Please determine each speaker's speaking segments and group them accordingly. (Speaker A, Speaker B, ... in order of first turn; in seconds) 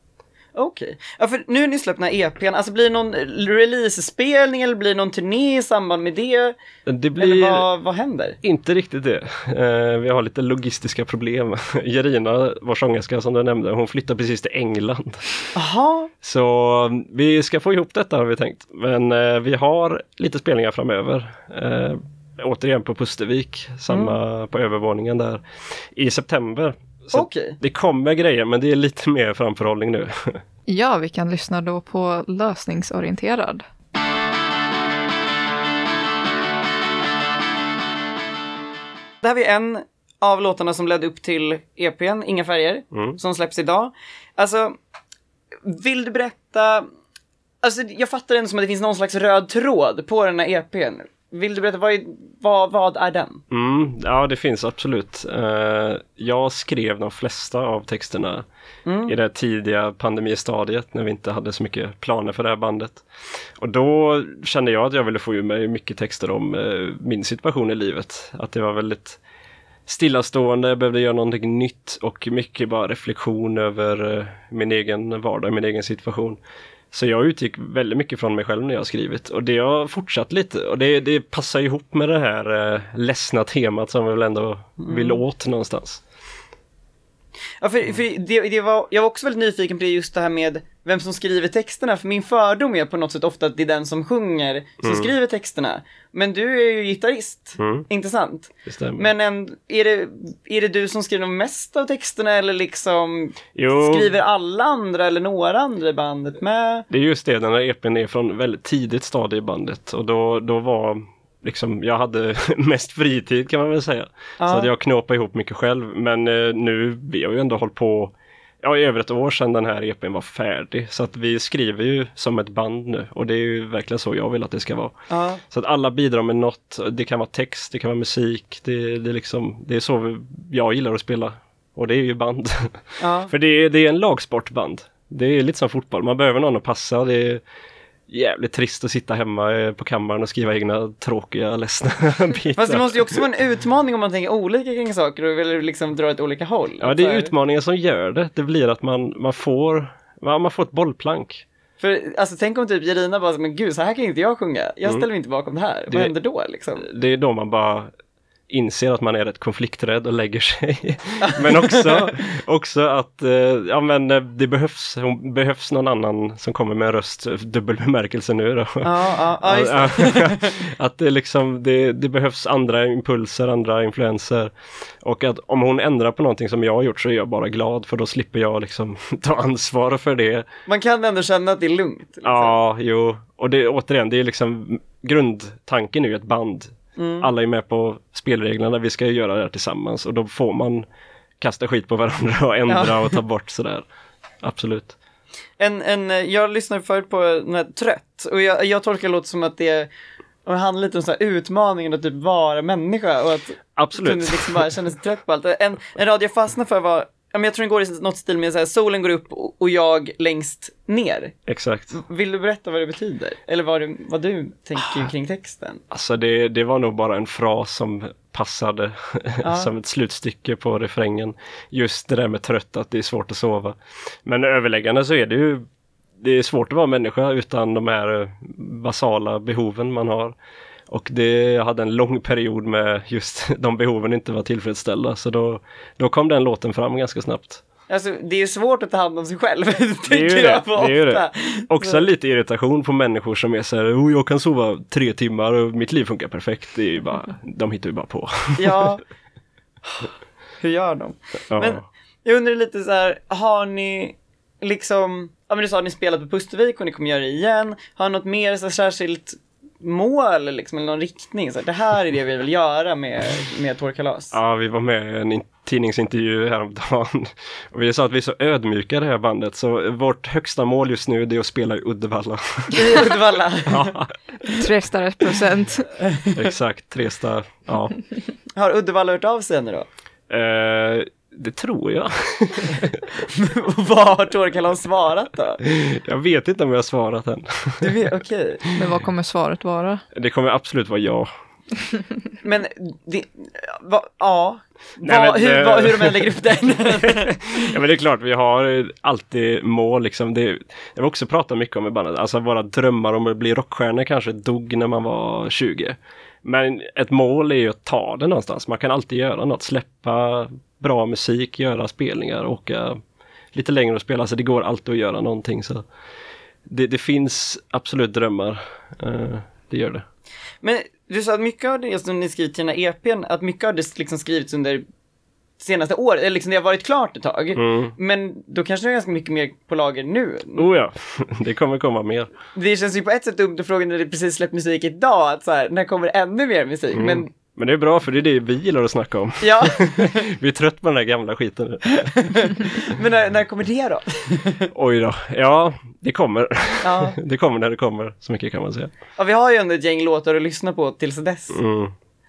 Speaker A: 0.6-6.6, 7.2-8.4, 15.6-16.1, 23.9-24.1, 27.1-27.6, 39.2-44.8, 45.6-46.8, 47.6-53.4, 58.9-59.2, 84.8-85.2, 87.6-106.9, 114.4-114.7, 125.1-125.4, 133.0-133.3, 142.6-147.3, 151.8-156.9, 161.2-162.1, 168.8-170.6, 180.7-182.6, 187.0-187.3, 192.7-193.2, 195.6-199.9, 200.4-211.3, 211.9-215.8, 219.4-219.7, 237.9-242.0, 248.6-249.0, 250.6-264.4, 272.8-274.0, 276.1-276.3, 278.6-279.9, 283.2-285.6, 287.8-288.7, 292.4-297.4, 320.6-324.8, 325.6-330.7, 332.5-337.3, 339.4-340.2, 341.9-344.7, 346.8-347.2, 349.2-351.6
Speaker B: 6.9-7.7, 8.4-15.3, 16.2-25.4, 25.9-30.4, 42.9-43.2, 53.5-58.5, 59.0-63.0, 63.6-69.2, 69.9-76.4, 76.9-86.0, 94.8-95.1, 97.6-97.9, 98.7-99.1, 103.5-104.1, 106.9-124.9, 125.5-137.4, 138.1-143.2, 146.8-151.4, 156.8-157.9, 158.5-174.5, 175.0-180.5, 182.2-190.9, 191.4-193.8, 194.4-195.0, 203.8-204.7, 211.5-212.0, 215.9-225.6, 226.2-230.3, 230.9-237.6, 240.1-248.9, 251.5-251.8, 264.3-274.1, 276.3-278.0, 280.3-283.0, 285.6-288.0, 290.1-291.3, 295.0-313.0, 313.5-315.8, 316.7-320.0, 327.5-327.9, 330.6-332.3, 336.9-342.1, 344.7-348.9, 351.5-351.9
Speaker C: 30.7-33.6, 274.6-275.9, 288.8-290.0